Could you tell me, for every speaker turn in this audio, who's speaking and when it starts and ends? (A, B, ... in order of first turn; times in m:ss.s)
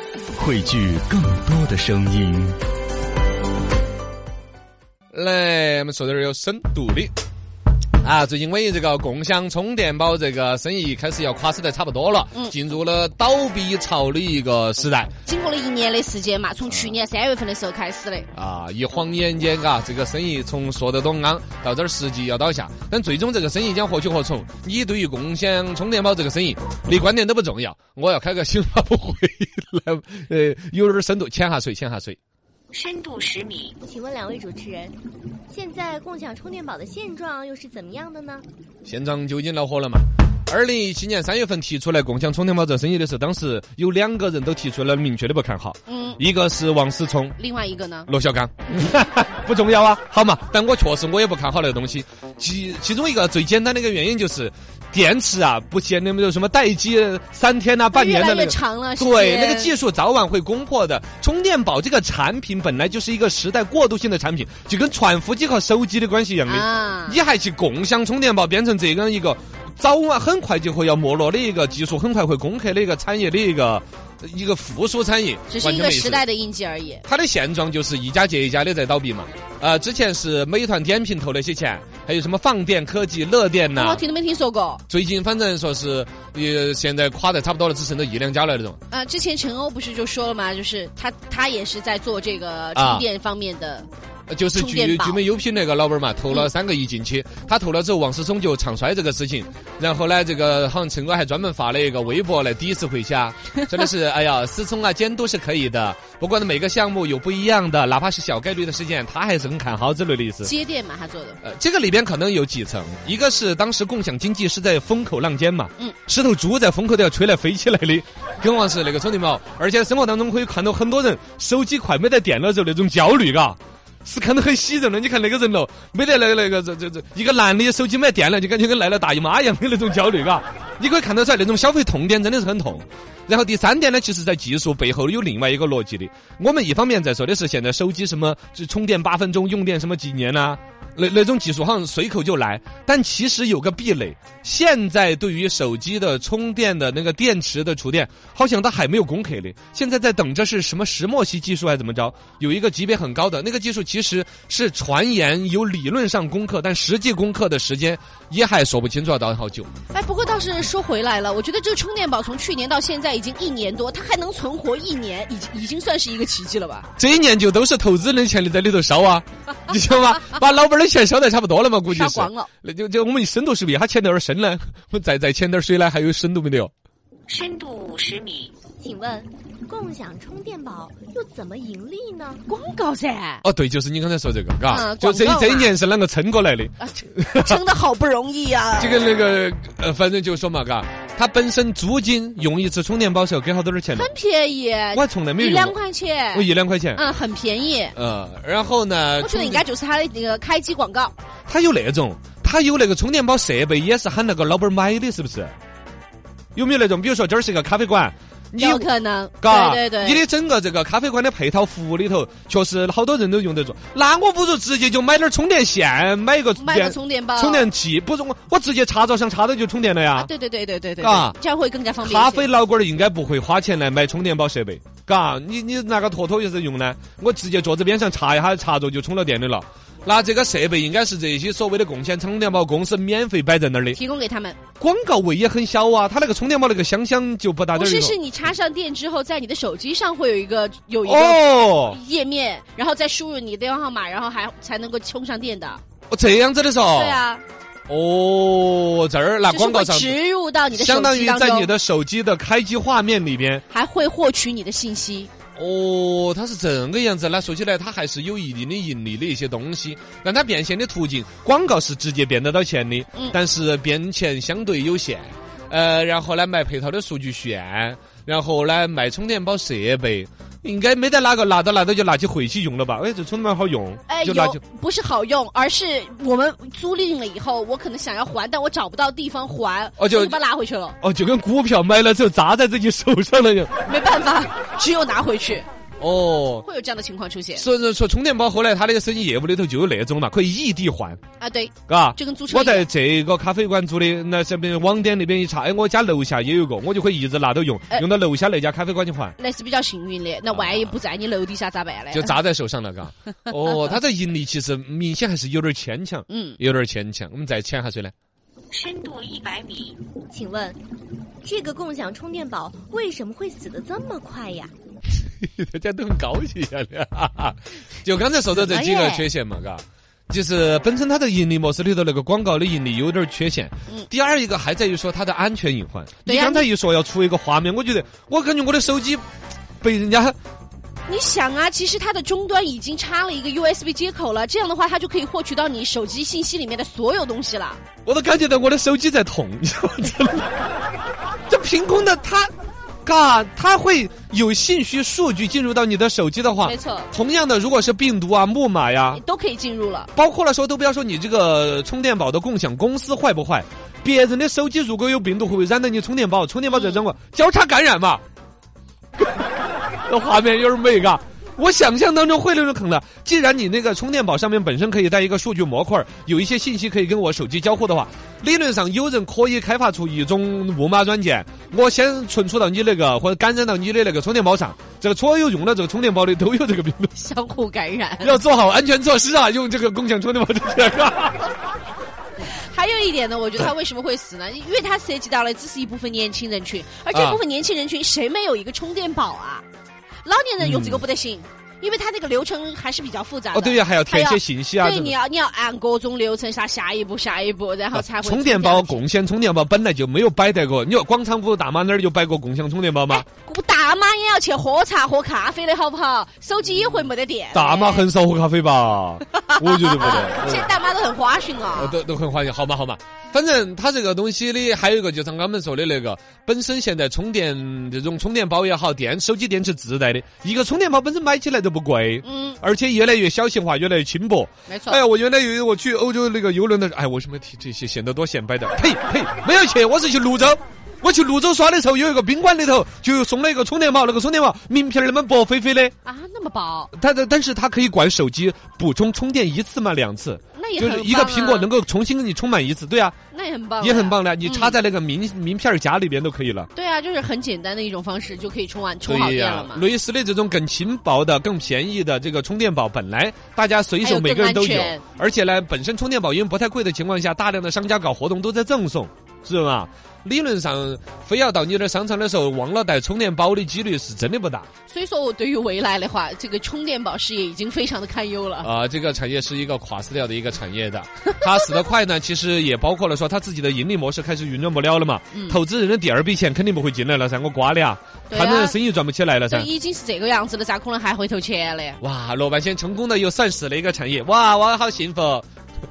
0:00.3-0:02.6 A
0:05.1-0:07.1 B
0:08.0-0:15.1 B
0:15.2-0:18.3 C
0:18.3-0:32.2 B
0:32.7-0:33.8 D
0:33.8-0:35.0 E
0:35.5-0:38.4 E
0:38.8-0:47.4 B
0:45.9-0:46.2 C
0:47.4-0:48.1 C
0:48.1-1:16.2 B
0:57.9-0:59.8 C
1:06.5-1:07.2 C
1:15.5-1:17.0 C
1:17.0-1:24.0 B
1:23.7-1:24.8 C
1:24.9-1:28.8 B
1:28.9-1:33.9 C
1:32.7-1:33.0 B
1:34.3-1:50.5 B
1:34.5-1:35.2 C
1:50.4-1:51.4 C
1:51.4-2:39.7 B
2:39.9-2:46.9 C
2:47.0-2:56.7 B
2:51.9-2:52.5 C
2:57.3-2:58.5 D
2:58.8-3:02.4 E
3:02.5-3:03.4 C
3:03.4-3:07.6 B
3:04.7-3:05.7 C
3:06.8-3:09.0 C
3:08.8-3:14.1 B
3:13.9-3:17.9 C
3:14.9-3:15.8 B
3:16.3-3:17.0 B
3:17.9-3:19.6 B
3:19.2-3:21.1 C
3:21.5-3:25.5 B
3:26.5-3:28.9 B
3:28.6-3:30.2 C
3:29.4-3:40.3 B
3:36.6-3:37.7 C
3:40.2-3:42.5 C
3:41.0-3:41.4 B
3:42.0-3:54.0 B
3:53.9-3:54.6 C
3:54.8-3:58.2 B
3:57.7-4:05.8 C
4:01.0-4:02.0 B
4:06.1-4:07.2 B
4:06.9-4:07.4 C
4:07.9-4:10.2 B
4:09.5-4:11.7 C
4:10.7-4:13.6 B
4:13.7-4:15.3 C
4:15.6-4:34.6 B
4:34.1-4:41.0 C
4:40.0-4:40.4 B
4:41.0-4:43.7 B
4:43.9-4:45.6 C
4:46.0-4:46.6 B
4:46.6-4:47.6 C
4:47.6-4:51.2 B
4:51.4-4:52.9 C
4:51.9-4:59.4 B
4:59.4-5:02.3 C
5:00.5-5:01.0 B
5:02.1-5:08.1 B
5:06.3-5:06.6 C
5:08.7-5:10.0 D
5:10.3-5:10.8 E
5:11.4-5:14.7 E
5:15.4-5:29.2 B
5:26.2-5:26.7 C
5:29.8-5:30.4 B
5:31.1-5:37.8 C
5:38.0-5:40.5 B
5:41.5-5:42.5 B
5:43.0-5:49.2 B
5:46.6-5:47.1 C
5:49.1-5:50.1 C
5:50.1-5:58.2 B
5:56.7-5:57.0 C
6:00.0-6:17.1 B
6:17.2-6:18.4 C
6:18.2-6:21.5 B
6:22.4-6:29.6 C
6:27.1-6:27.4 B
6:30.2-6:39.0 C
6:30.6-6:31.0 B
6:33.5-6:35.2 B
6:37.9-6:43.2 B
6:43.1-6:48.1 C
6:47.5-6:50.7 B
6:49.4-6:52.0 C
6:51.7-7:15.9 B
7:02.2-7:02.6 C
7:04.7-7:05.0 C
7:16.0-7:16.9 C
7:16.9-7:23.1 B
7:20.5-7:21.7 C
7:23.3-7:24.8 C
7:23.8-7:26.7 B
7:26.7-7:29.8 C
7:29.0-7:44.7 B
7:34.0-7:35.0 C
7:44.9-7:48.7 C
7:48.6-7:59.7 B
7:55.3-7:55.6 C
7:58.3-7:58.8 C
7:59.5-8:02.0 C
8:02.0-8:05.4 B